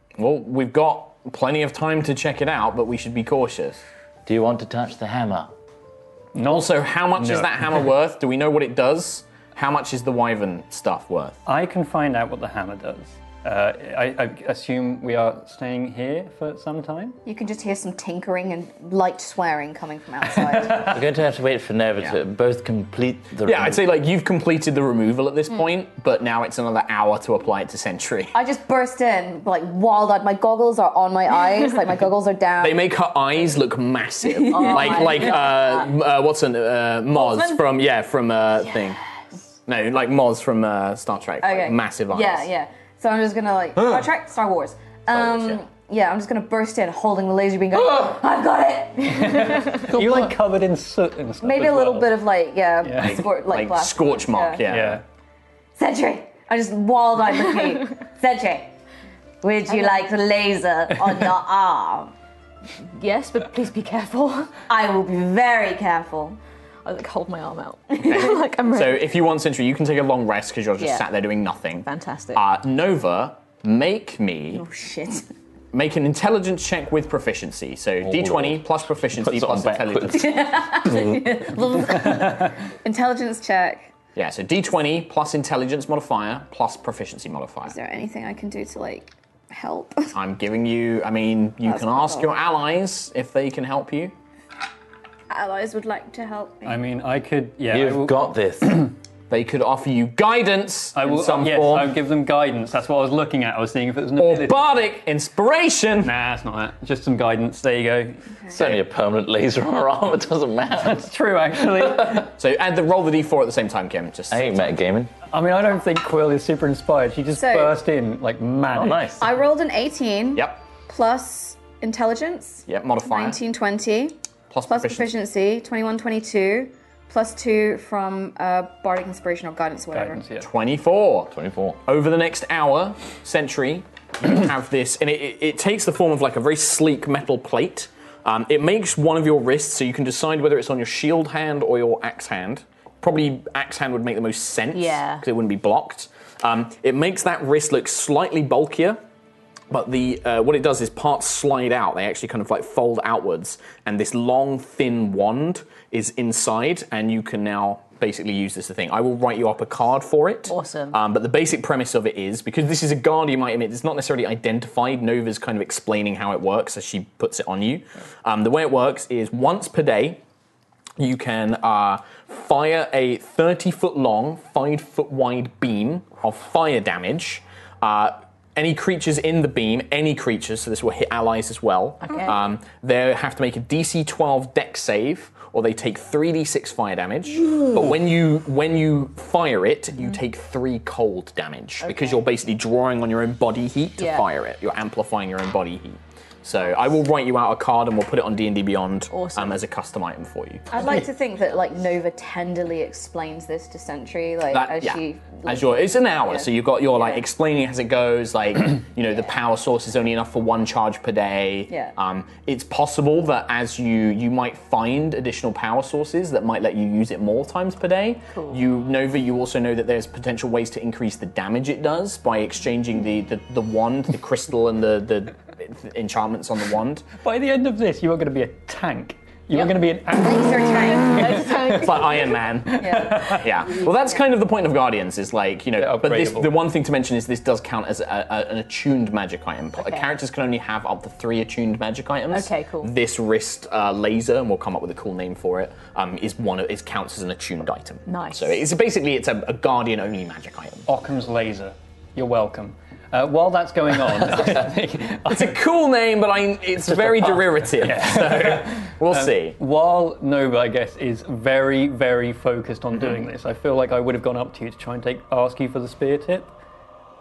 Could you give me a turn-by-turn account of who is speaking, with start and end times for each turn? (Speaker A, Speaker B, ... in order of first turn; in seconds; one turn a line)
Speaker A: 0.2-3.8
Speaker B: 4.3-5.5
Speaker C: 6.3-7.8
Speaker A: 6.4-11.4
Speaker C: 11.5-17.2
Speaker D: 17.3-21.0
Speaker C: 20.3-21.0
Speaker B: 20.8-23.9
Speaker A: 23.4-28.3
Speaker D: 28.3-32.8
Speaker A: 32.6-39.0
Speaker D: 34.2-35.8
Speaker E: 34.5-35.9
Speaker D: 37.1-37.6
Speaker A: 39.7-42.5
Speaker D: 41.4-49.9
Speaker A: 43.8-44.1
Speaker A: 45.1-45.6
Speaker C: 49.1-52.2
Speaker D: 51.4-54.6
Speaker C: 52.8-53.3
Speaker A: 53.0-55.0
Speaker C: 54.7-55.0
Speaker D: 55.8-58.7
Speaker D: 59.4-62.1
Speaker E: 59.7-60.1
Speaker E: 63.0-64.5
Speaker D: 64.7-66.4
Speaker E: 66.8-69.1
Speaker D: 68.0-68.4
Speaker A: 68.0-74.6
Speaker E: 70.8-71.1
Speaker E: 71.8-72.4
Speaker D: 74.5-75.3
Speaker A: 75.7-80.4
Speaker B: 78.0-80.3
Speaker D: 80.1-83.9
Speaker B: 80.9-81.2
Speaker A: 84.2-87.8
Speaker D: 87.7-90.2
Speaker A: 90.1-94.1
Speaker D: 91.6-92.3
Speaker D: 95.3-96.8
Speaker C: 96.7-98.9
Speaker B: 97.7-98.9
Speaker A: 99.3-102.0
Speaker C: 101.0-104.6
Speaker A: 104.2-106.1
Speaker C: 106.0-108.3
Speaker B: 108.5-111.1
Speaker C: 110.8-112.3
Speaker B: 111.8-112.2
Speaker A: 112.3-114.7
Speaker B: 114.3-115.1
Speaker C: 115.3-119.1
Speaker D: 117.3-117.8
Speaker B: 118.7-119.3
Speaker D: 119.2-124.2
Speaker A: 120.3-120.6
Speaker A: 122.7-123.4
Speaker A: 124.5-125.1
Speaker D: 124.7-130.2
Speaker C: 129.9-130.5
Speaker A: 130.4-131.3
Speaker B: 131.3-131.8
Speaker A: 131.9-149.0
Speaker E: 144.7-145.2
Speaker A: 149.7-170.2
Speaker E: 160.5-161.0
Speaker A: 171.0-201.0
Speaker E: 182.0-182.4
Speaker E: 191.8-192.2
Speaker E: 194.0-194.3
Speaker E: 199.1-199.6
Speaker D: 200.7-207.2
Speaker A: 204.5-227.1
Speaker E: 218.3-218.6
Speaker C: 227.2-233.5
Speaker D: 230.2-231.5
Speaker E: 230.9-232.3
Speaker A: 231.6-250.9
Speaker D: 232.8-233.4
Speaker C: 235.8-236.6
Speaker E: 239.8-240.1
Speaker E: 242.3-242.9
Speaker E: 248.1-248.6
Speaker C: 250.9-255.6
Speaker A: 255.3-259.6
Speaker B: 256.9-257.4
Speaker C: 257.8-266.5